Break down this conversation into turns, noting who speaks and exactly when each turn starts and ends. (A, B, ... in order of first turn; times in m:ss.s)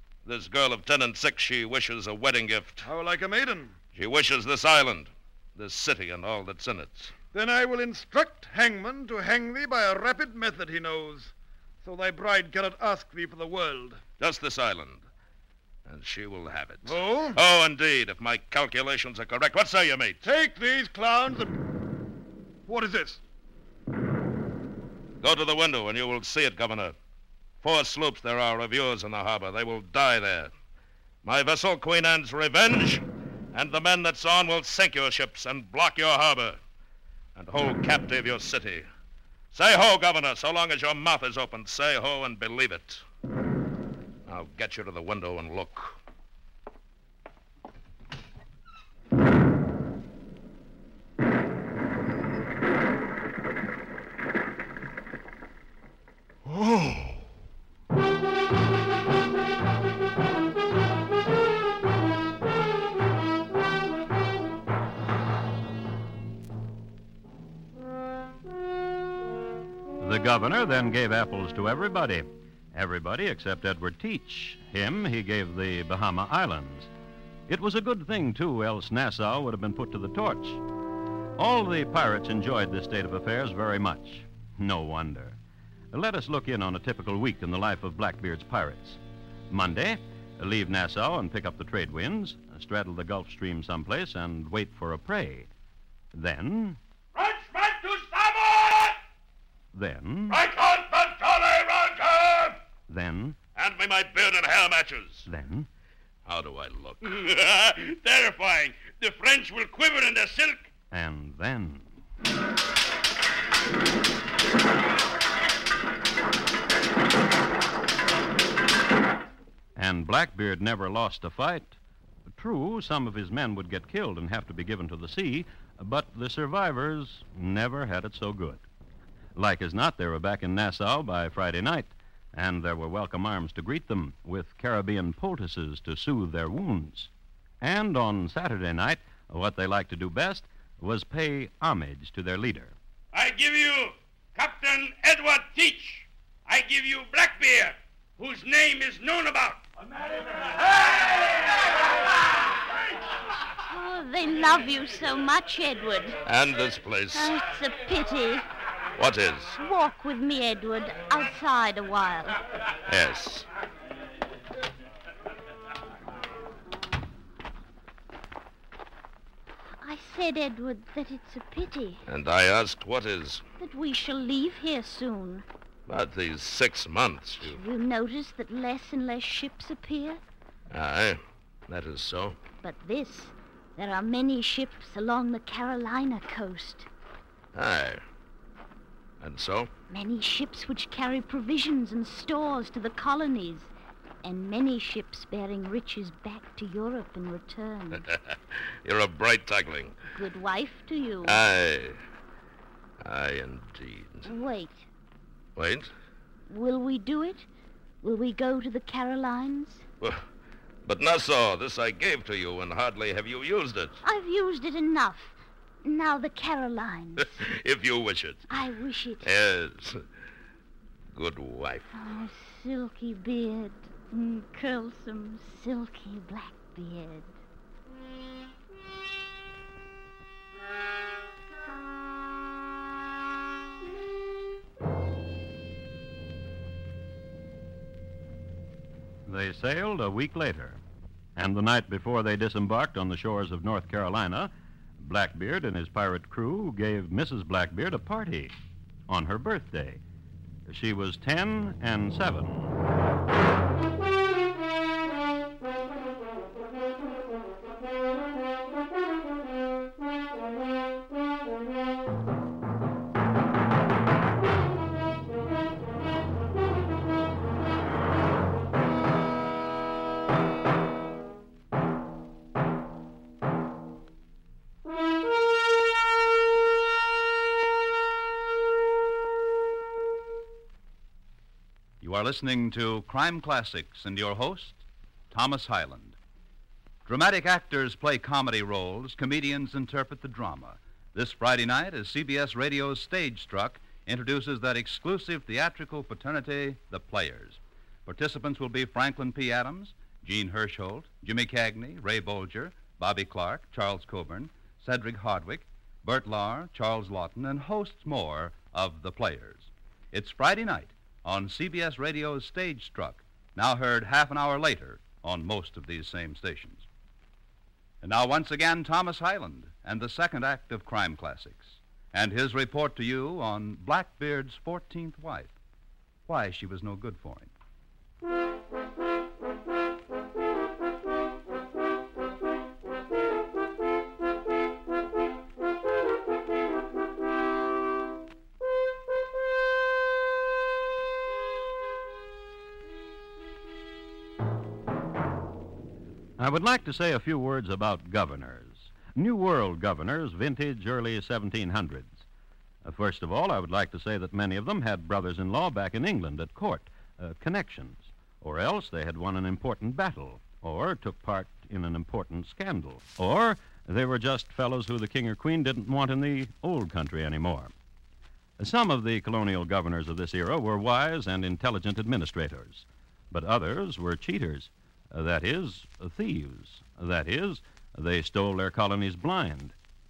0:00.2-0:02.9 A
0:02.8-0:03.8 B
0:04.0-0:07.1 A
0:07.3-0:14.0 B
0:14.2-0:15.0 A
0:15.9-0:20.3 A
0:16.8-0:17.4 B
0:20.2-0:21.6 B
0:22.6-0:23.2 B
0:25.2-0:27.0 A
0:27.6-0:30.5 A
0:31.2-0:36.6 A
0:37.4-0:38.9 A
0:39.5-0:43.0 A
0:44.3-0:46.0 A
1:10.0-1:16.9 C
1:17.5-1:20.6 C
1:21.4-1:25.4 C
1:25.9-1:29.0 C
1:29.5-1:35.5 C
1:36.1-1:36.8 C
1:37.1-1:39.0 D
1:39.7-1:40.4 C
1:40.3-1:42.6 D
1:42.9-1:43.4 C
1:43.6-1:45.2 A
1:45.3-1:45.7 C
1:46.2-1:47.2 A
1:47.0-1:50.7 D
1:50.9-1:51.9 C
1:59.8-2:01.8 C
2:02.3-2:08.6 C
2:09.4-2:17.1 C
2:17.6-2:22.8 C
2:23.1-2:29.6 D
2:30.2-2:31.4 D
2:33.6-2:36.2 E
2:36.2-2:37.3 A
2:37.1-2:38.4 E
2:39.0-2:39.6 A
2:39.6-2:42.4 E
2:42.9-2:43.5 A
2:49.8-2:52.0 E
2:52.1-2:53.4 A
2:53.6-2:55.5 E
2:55.9-2:57.6 A
2:57.4-3:00.2 E
3:00.7-3:02.4 A
3:02.6-3:06.9 E
3:07.5-3:08.0 A
3:09.2-3:09.7 A
3:09.9-3:13.7 E
3:14.2-3:18.1 E
3:18.8-3:20.0 A
3:20.1-3:21.4 E
3:21.2-3:22.0 A
3:23.0-3:24.3 A
3:24.2-3:24.9 E
3:25.6-3:25.9 A
3:26.5-3:27.5 E
3:28.0-3:29.8 E
3:30.8-3:34.0 A
3:34.0-3:37.4 E
3:37.4-3:38.5 A
3:38.5-3:39.3 E
3:39.2-3:40.0 A
3:41.1-3:41.9 A
3:41.9-3:47.4 E
3:59.2-4:00.8 C
4:01.4-4:08.5 C
4:09.1-4:10.0 C
4:10.7-4:12.8 C
4:42.0-4:46.2 F
4:47.0-5:16.9 F
5:18.0-5:25.5 F
5:26.3-5:27.5 F
5:46.4-5:52.2 C
5:52.8-6:07.7 C
6:08.6-6:19.8 C